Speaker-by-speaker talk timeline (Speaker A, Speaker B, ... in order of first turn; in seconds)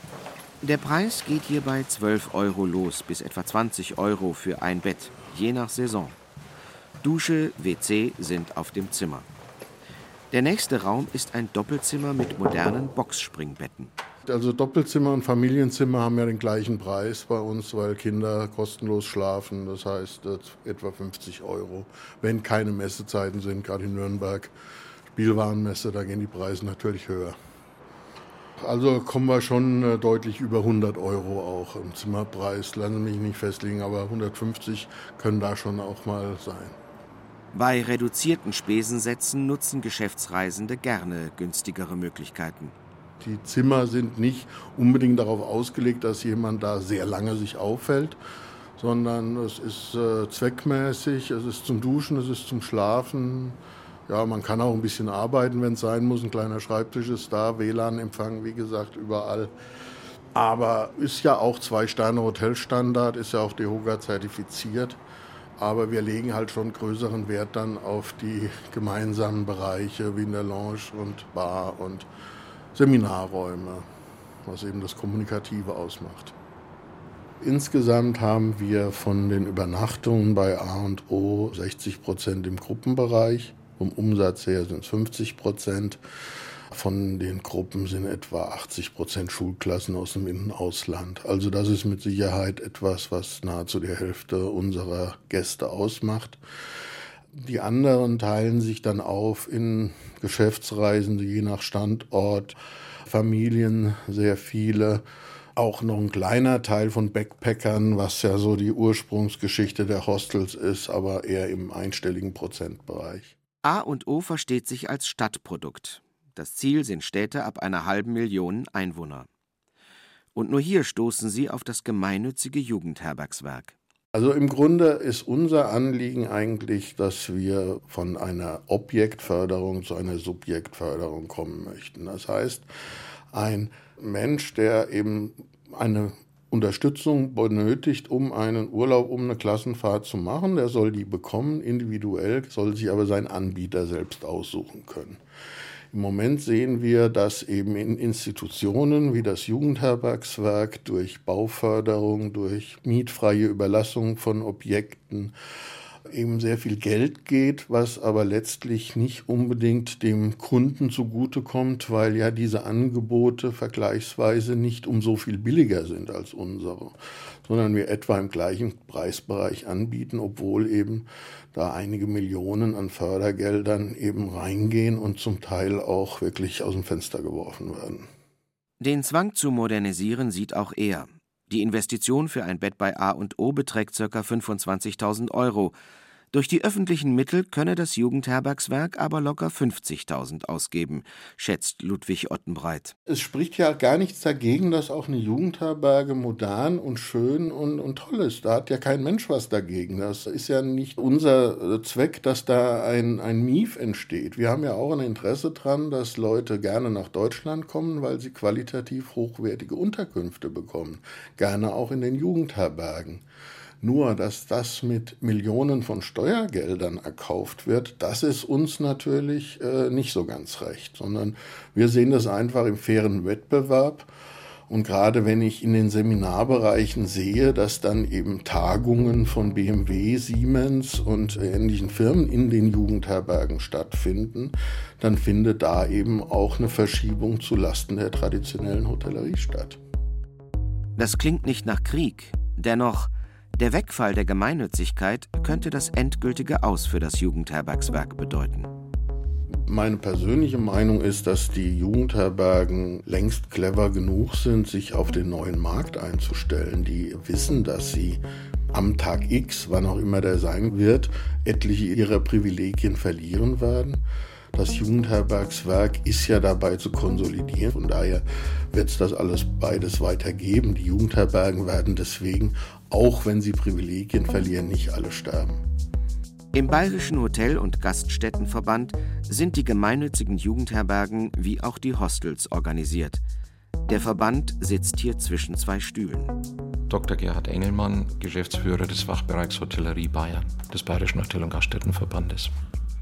Speaker A: 0.6-6.2, 7.0-9.3, 10.3-13.9, 37.5-42.7, 113.6-119.3, 120.3-123.8, 178.8-185.7, 186.3-192.9, 241.0-248.7, 276.5-283.2, 283.9-286.3
Speaker B: 14.3-24.5, 25.1-27.4, 28.6-36.8, 43.2-48.2, 48.8-59.5, 60.3-65.0, 65.6-72.1, 72.7-73.8, 74.5-76.3, 77.4-86.0, 86.7-96.4, 97.3-102.5, 103.1-105.0, 105.6-113.3, 124.1-132.7, 133.3-145.2, 145.9-155.3, 156.1-178.1, 193.1-213.2, 213.8-224.1, 224.7-239.8, 249.7-264.0, 264.5-275.6
Speaker C: 286.9-292.5